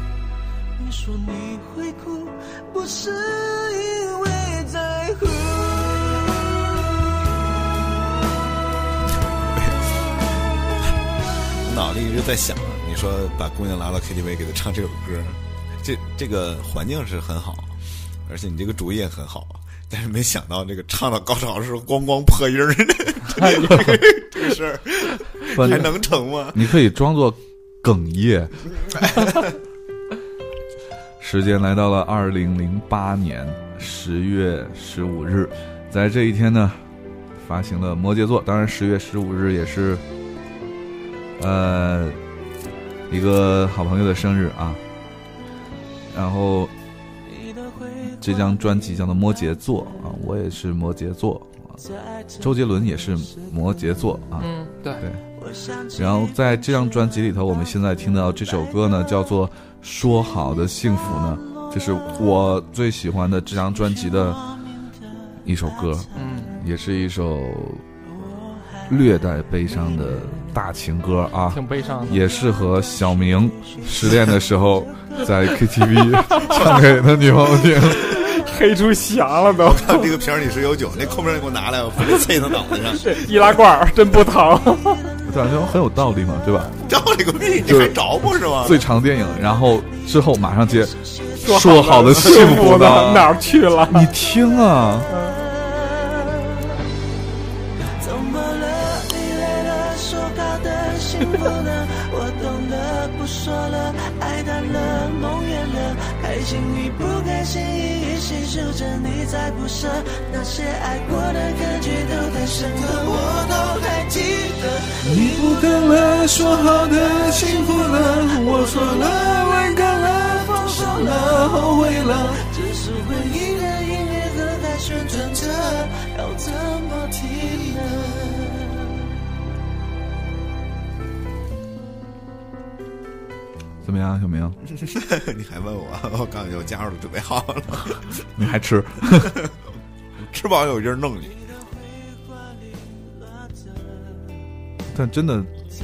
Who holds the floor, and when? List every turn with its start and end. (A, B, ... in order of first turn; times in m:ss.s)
0:00.8-0:06.9 A
0:09.1-0:09.9 B
0:11.6-0:26.6 B
0:23.3-0:24.1 C
0:25.5-0:25.9 C
0:25.5-0:25.9 D
0:26.5-0:29.0 D
0:29.1-0:29.4 B
0:31.2-0:36.8 D
0:37.4-0:40.0 D
0:41.4-0:42.2 D
0:43.1-0:44.8 D
0:46.1-0:46.7 D
0:47.3-0:48.1 A
0:48.0-0:51.8 D
0:52.0-0:52.4 A
0:52.4-0:55.2 D
0:54.4-0:55.0 C
0:55.5-0:55.9 A
0:55.9-1:04.4 D
1:05.4-1:07.8 D
1:06.1-1:06.6 C
1:08.9-1:18.2 D
1:11.5-1:12.3 C
1:16.2-1:16.7 C
1:17.8-1:20.1 C
1:19.6-1:23.2 B
1:22.9-1:25.1 C
1:25.2-1:26.7 D
1:26.8-1:28.8 B
1:27.6-1:28.0 D
1:28.6-1:33.3 D
1:31.4-1:34.1 C
1:33.9-1:35.1 D
1:35.1-1:35.4 C
1:35.4-1:36.7 A
1:38.0-2:09.0 A
1:55.0-2:00.3 D
2:00.9-2:02.3 D
2:13.8-2:14.6 D
2:14.6-2:18.4 B
2:18.4-2:19.4 D
2:19.1-2:19.5 B
2:20.2-2:21.4 B
2:24.9-2:25.5 D